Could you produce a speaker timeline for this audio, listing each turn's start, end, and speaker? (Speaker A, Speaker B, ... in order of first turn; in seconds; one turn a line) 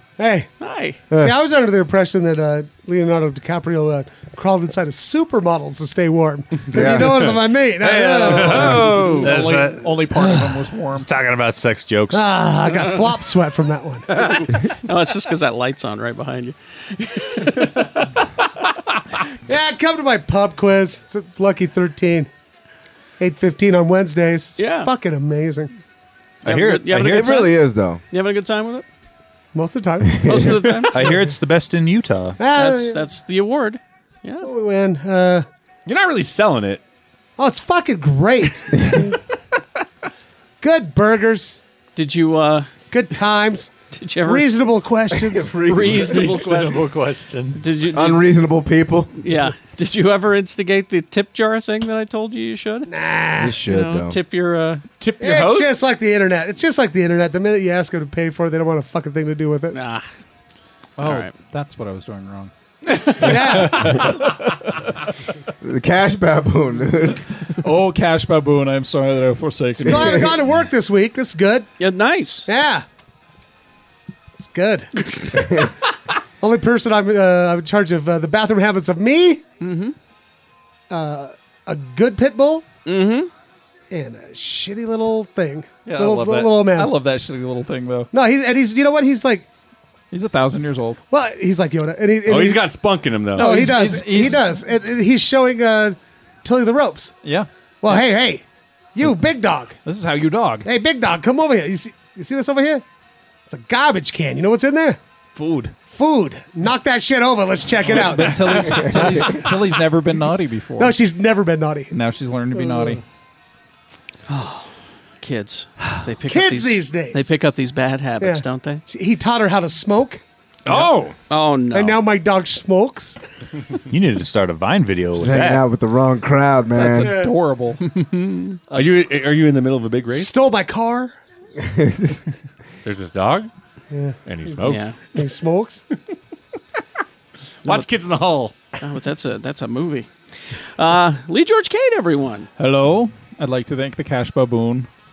Speaker A: 0.2-0.5
Speaker B: 0.6-1.0
Speaker A: 1.1-8.9
Speaker C: 6.7-7.3
Speaker D: 7.8-10.0
Speaker E: 8.2-9.3
Speaker F: 9.2-11.1
Speaker A: 10.2-10.6
Speaker D: 10.9-12.3
Speaker A: 12.1-14.4
Speaker B: 14.1-18.0
Speaker A: 19.5-22.3
Speaker A: 23.2-25.7
Speaker B: 24.6-24.9
Speaker B: 26.4-28.9
Speaker D: 26.4-27.4
Speaker C: 27.0-28.0
Speaker A: 29.5-31.3
Speaker C: 30.1-30.6
Speaker B: 30.2-31.1
Speaker D: 30.9-32.4
Speaker A: 32.4-33.0
Speaker B: 32.5-34.5
Speaker A: 34.4-35.5
Speaker E: 35.9-36.8
Speaker A: 37.4-39.2
Speaker A: 40.6-41.6
Speaker B: 42.0-42.7
Speaker A: 42.9-46.3
Speaker B: 43.9-44.5
Speaker C: 45.1-46.1
Speaker B: 45.6-46.9
Speaker D: 45.7-47.6
Speaker B: 47.5-48.3
Speaker C: 47.9-49.1
Speaker B: 49.2-52.9
Speaker A: 52.9-53.6
Speaker C: 53.4-54.2
Speaker B: 53.6-54.8
Speaker E: 55.0-55.8
Speaker A: 55.2-59.8
Speaker B: 59.7-60.0
Speaker F: 61.0-62.5
Speaker B: 61.0-61.3
Speaker B: 62.9-63.5
Speaker A: 63.1-64.1
Speaker C: 63.2-64.1
Speaker C: 65.6-67.2
Speaker F: 67.6-70.2
Speaker C: 69.8-70.3
Speaker A: 69.8-71.7
Speaker B: 71.8-72.5
Speaker A: 72.5-72.8
Speaker A: 74.4-75.6
Speaker A: 76.4-79.4
Speaker B: 79.6-79.9
Speaker A: 80.9-82.6
Speaker B: 82.8-83.3
Speaker A: 83.9-87.0
Speaker F: 85.8-88.1
Speaker A: 88.1-89.5
Speaker F: 90.1-91.0
Speaker A: 91.1-92.6
Speaker E: 92.2-93.7
Speaker A: 93.3-97.1
Speaker F: 93.3-94.5
Speaker A: 97.8-98.4
Speaker A: 98.9-99.8
Speaker F: 99.8-100.7
Speaker A: 100.6-102.8
Speaker A: 103.5-105.0
Speaker F: 105.3-105.7
Speaker A: 105.9-109.4
Speaker F: 107.8-111.0
Speaker C: 108.6-109.3
Speaker A: 110.8-111.9
Speaker F: 111.9-113.0
Speaker A: 112.5-113.0
Speaker B: 114.3-114.7
Speaker B: 115.2-118.8
Speaker A: 116.3-117.3
Speaker A: 118.2-120.2
Speaker E: 120.6-121.2
Speaker B: 121.3-122.0
Speaker A: 121.7-123.2
Speaker D: 123.9-125.6
Speaker C: 125.1-127.2
Speaker F: 126.7-127.8
Speaker A: 127.0-127.3
Speaker B: 127.9-128.6
Speaker E: 128.7-130.3
Speaker A: 130.1-131.1
Speaker C: 131.6-132.3
Speaker E: 132.8-133.5
Speaker A: 133.9-134.2
Speaker E: 134.2-134.9
Speaker B: 134.6-135.0
Speaker A: 135.1-135.8
Speaker E: 137.6-138.6
Speaker B: 138.8-140.1
Speaker B: 140.8-142.5
Speaker F: 142.6-144.9